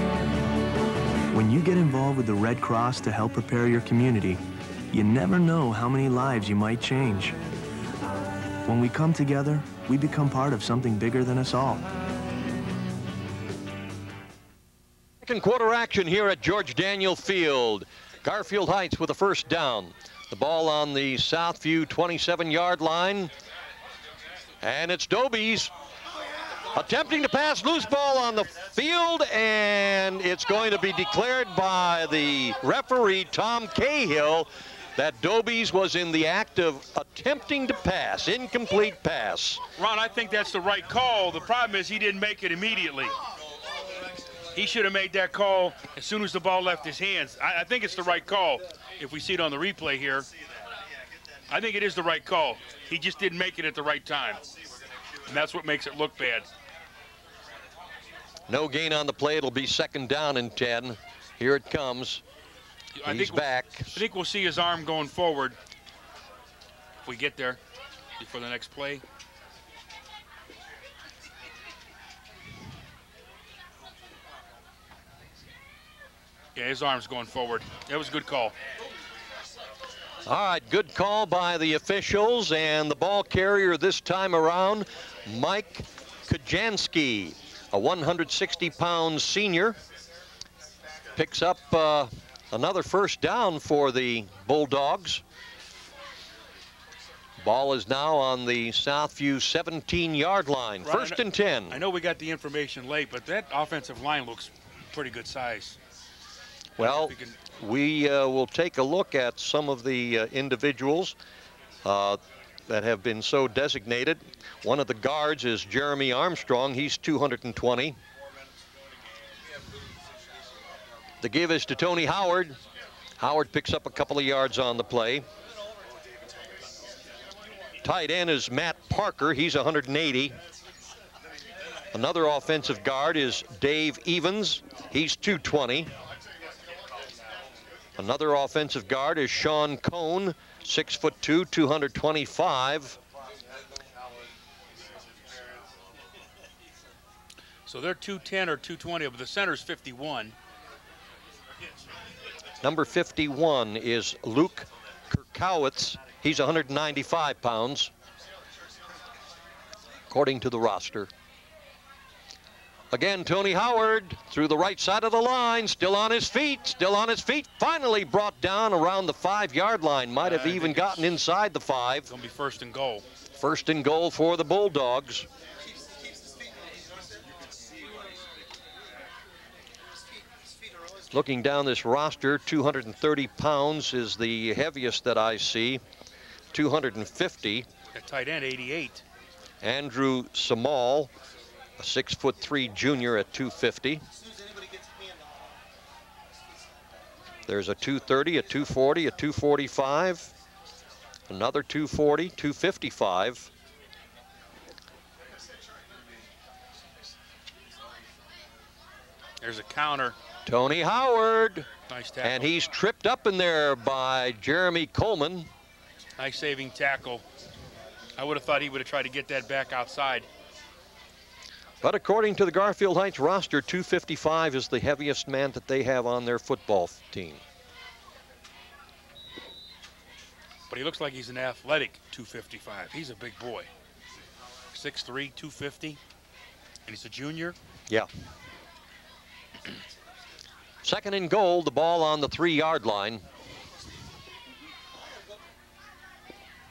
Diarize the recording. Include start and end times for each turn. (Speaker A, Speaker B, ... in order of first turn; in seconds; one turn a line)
Speaker A: 1.3-7.4
Speaker A: 8.7-11.9
Speaker B: 15.2-23.3
Speaker B: 24.6-25.7
Speaker B: 26.7-39.6
Speaker C: 39.8-43.1
Speaker C: 44.5-50.3
Speaker C: 51.5-54.4
Speaker C: 55.3-56.5
Speaker B: 58.5-62.2
Speaker C: 62.9-65.5
Speaker B: 63.0-63.9
Speaker C: 67.0-67.6
Speaker C: 68.2-69.0
Speaker C: 76.5-78.5
Speaker B: 80.2-89.8
Speaker B: 91.2-95.2
Speaker B: 97.4-101.8
Speaker C: 100.8-105.8
Speaker C: 106.8-107.3
Speaker B: 106.8-111.2
Speaker B: 111.8-118.0
Speaker B: 121.2-122.6
Speaker B: 123.2-125.2
Speaker B: 127.8-130.3
Speaker B: 131.9-135.9
Speaker B: 138.0-143.0
Speaker C: 147.7-150.3
Speaker B: 152.6-157.9
Speaker B: 160.1-161.1
Speaker B: 162.9-172.1
Speaker C: 170.2-171.0
Speaker C: 172.1-173.0
Speaker B: 173.4-175.3
Speaker B: 181.1-185.8
Speaker B: 186.5-187.7
Speaker C: 187.9-189.0
Speaker B: 189.6-191.1
Speaker B: 191.8-194.0
Speaker B: 197.4-200.3
Speaker B: 201.3-203.5
Speaker C: 209.4-210.2
Speaker B: 210.4-211.7
Speaker C: 211.9-212.5
Speaker B: 212.2-215.5
Speaker C: 216.2-217.2
Speaker C: 218.2-220.2
Speaker B: 221.8-227.4
Speaker C: 230.7-233.7
Speaker C: 234.7-236.0
Speaker C: 236.9-237.6
Speaker B: 240.8-243.2